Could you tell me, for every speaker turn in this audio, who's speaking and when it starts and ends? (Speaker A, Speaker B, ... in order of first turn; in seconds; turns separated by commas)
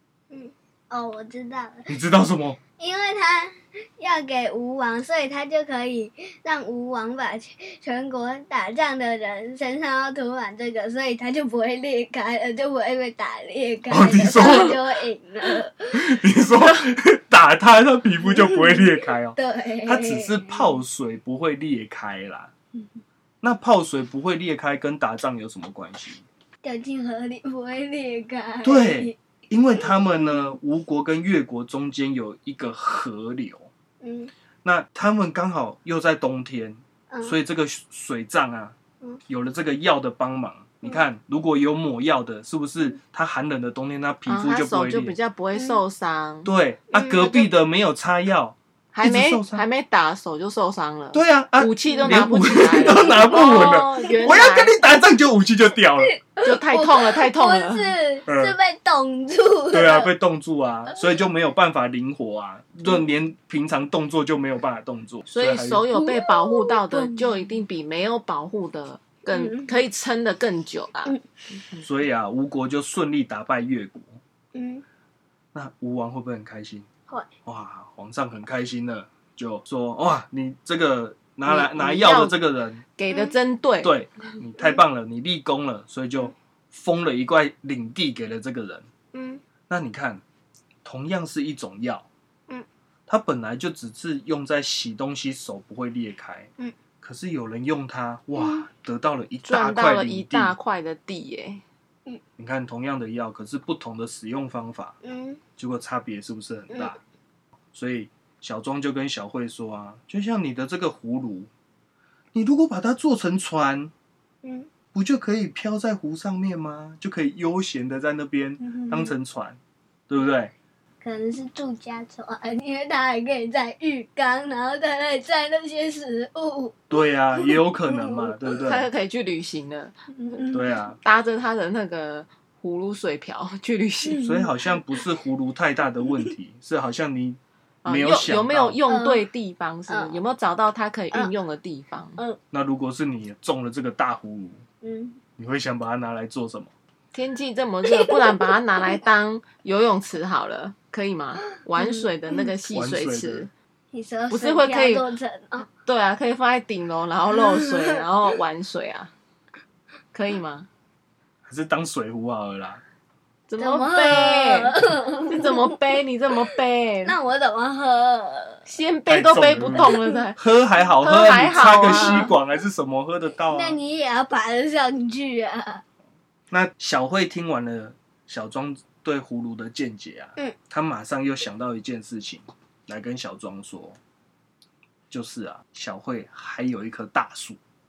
Speaker A: 0.3-1.9, Speaker B: 1.9-2.6, Speaker A: 2.8-15.9, Speaker B: 13.9-14.8, Speaker B: 15.9-22.5, Speaker A: 18.2-20.8, Speaker B: 23.4-26.2, Speaker A: 26.6-29.2, Speaker B: 28.6-33.7, Speaker A: 29.8-30.6, Speaker A: 34.0-34.3, Speaker B: 34.6-38.8, Speaker A: 37.1-37.4, Speaker B: 39.3-45.1, Speaker C: 44.3-46.5, Speaker A: 45.5-45.8, Speaker B: 46.4-49.6, Speaker A: 46.9-47.5, Speaker C: 48.9-54.8, Speaker B: 51.1-56.1, Speaker A: 51.9-52.3, Speaker A: 52.8-55.0, Speaker A: 56.0-60.1, Speaker C: 56.4-57.9, Speaker B: 58.3-58.5, Speaker B: 59.7-65.9, Speaker C: 65.3-71.1, Speaker A: 65.9-67.6, Speaker A: 69.3-69.8, Speaker B: 71.8-74.2, Speaker A: 74.5-74.8, Speaker B: 75.5-76.9, Speaker B: 77.4-82.8, Speaker C: 81.5-82.3, Speaker C: 83.0-84.0, Speaker A: 83.1-83.3, Speaker B: 83.8-88.9, Speaker A: 89.1-89.4, Speaker B: 89.7-90.2, Speaker B: 90.8-92.1, Speaker B: 93.1-100.5, Speaker A: 98.3-98.7, Speaker C: 99.5-101.6, Speaker B: 102.4-105.0, Speaker A: 105.0-105.4, Speaker B: 105.6-107.0, Speaker A: 106.7-107.0, Speaker B: 107.7-111.5, Speaker B: 112.3-113.9, Speaker A: 114.4-114.7, Speaker B: 114.9-120.5, Speaker A: 118.6-119.1, Speaker A: 121.0-126.8, Speaker B: 126.9-128.9, Speaker A: 127.3-128.4, Speaker C: 128.6-129.9, Speaker A: 130.1-130.7, Speaker B: 130.5-131.0, Speaker C: 131.0-134.3, Speaker A: 134.1-135.0, Speaker B: 134.2-138.8, Speaker C: 137.8-142.2, Speaker A: 138.9-139.2, Speaker A: 139.9-140.2, Speaker B: 142.5-144.6, Speaker A: 144.8-145.2, Speaker B: 145.4-146.7, Speaker C: 147.1-153.5, Speaker A: 147.9-148.4, Speaker A: 151.8-152.5, Speaker B: 152.7-153.5, Speaker A: 153.9-155.7, Speaker C: 154.3-155.1, Speaker C: 155.8-159.1, Speaker A: 157.3-158.0, Speaker C: 160.1-160.7, Speaker B: 161.4-162.8, Speaker C: 163.5-167.2, Speaker A: 163.6-165.7, Speaker A: 167.0-168.7, Speaker C: 168.7-170.4, Speaker B: 169.1-173.8, Speaker A: 169.7-170.2, Speaker C: 171.0-172.3, Speaker A: 171.4-172.3, Speaker A: 173.5-175.8, Speaker B: 176.5-184.0, Speaker B: 185.1-187.6